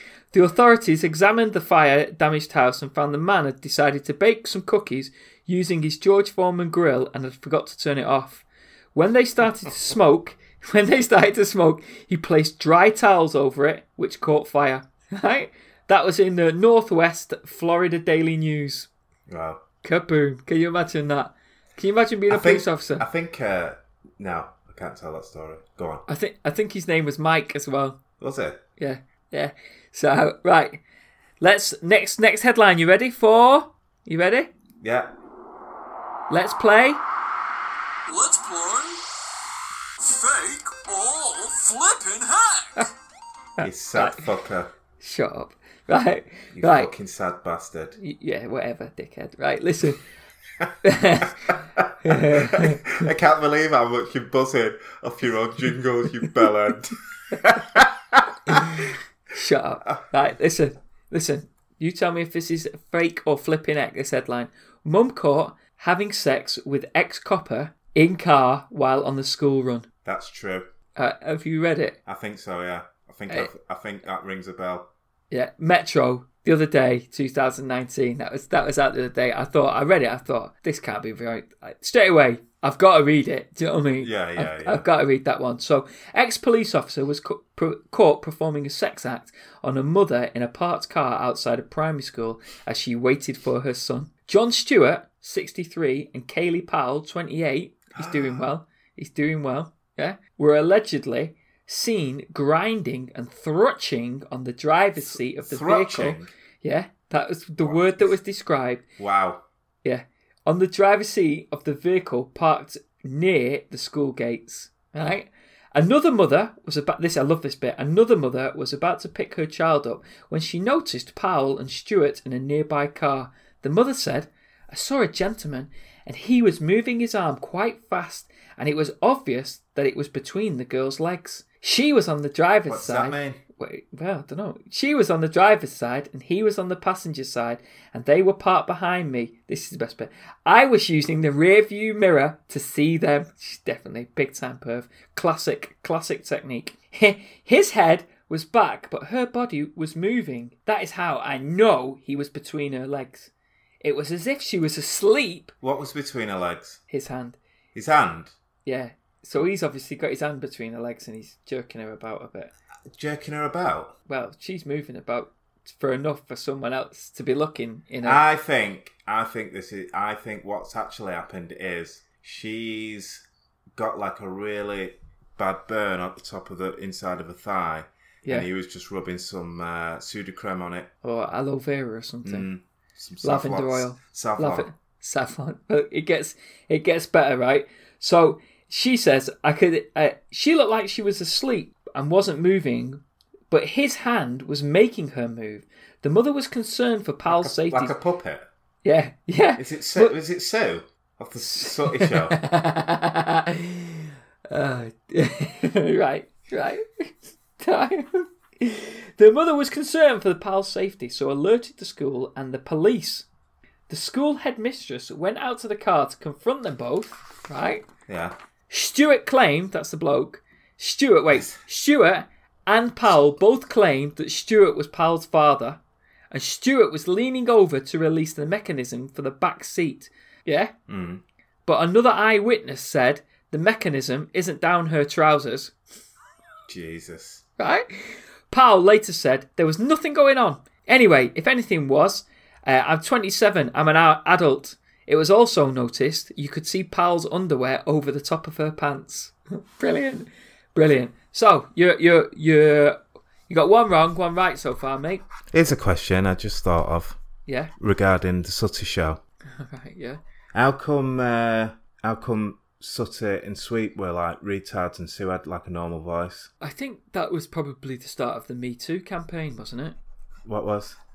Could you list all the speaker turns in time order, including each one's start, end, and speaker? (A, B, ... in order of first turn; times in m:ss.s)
0:00.3-0:18.9 A
0:19.3-0:19.6 B
0:19.8-0:23.0 A
0:22.3-0:26.0 B
0:26.1-0:28.0 A
0:28.2-0:28.6 B
0:28.8-0:30.8 A
0:31.4-0:34.5 A
0:34.8-0:35.1 B
0:36.3-0:37.0 A
0:38.1-0:39.0 C
0:40.0-0:42.9 C
0:43.6-0:44.7 B
0:43.9-0:44.3 A
0:45.0-0:46.9 A
0:46.5-0:48.0 B
0:48.0-0:50.0 A
0:50.8-0:52.8 A
0:51.2-0:58.9 B
0:59.3-1:09.9 A
1:10.0-1:10.7 B
1:11.0-1:12.0 A
1:12.1-1:14.9 B
1:15.3-1:48.8 A
1:24.0-1:24.8 B
1:38.0-1:38.5 B
1:45.1-1:46.3 B
1:47.6-1:48.1 B
1:49.0-1:49.4 B
1:49.8-2:33.3 A
2:12.7-2:13.4 B
2:33.8-2:35.5 A
2:35.6-2:36.8 B
2:36.9-2:37.4 A
2:37.8-2:38.3 B
2:38.7-2:42.5 A
2:42.9-2:44.0 B
2:44.1-2:48.2 A
2:48.0-3:00.9 B
3:01.0-3:02.5 A
3:02.2-3:04.7 B
3:03.2-3:18.0 A
3:17.3-3:18.5 B
3:18.8-3:20.2 A
3:19.6-3:22.4 B
3:21.5-3:33.3 A
3:33.9-3:37.8 A
3:38.1-3:38.4 B
3:38.7-3:45.8 A
3:46.3-3:50.7 A
3:50.9-3:51.2 B
3:51.7-3:55.7 A
3:56.7-3:57.4 B
3:57.6-4:15.2 A
4:15.5-4:17.2 B
4:17.5-4:17.7 A
4:17.8-4:19.2 B
4:19.5-4:20.2 A
4:20.6-4:26.5 B
4:26.6-4:30.0 A
4:30.5-4:31.0 B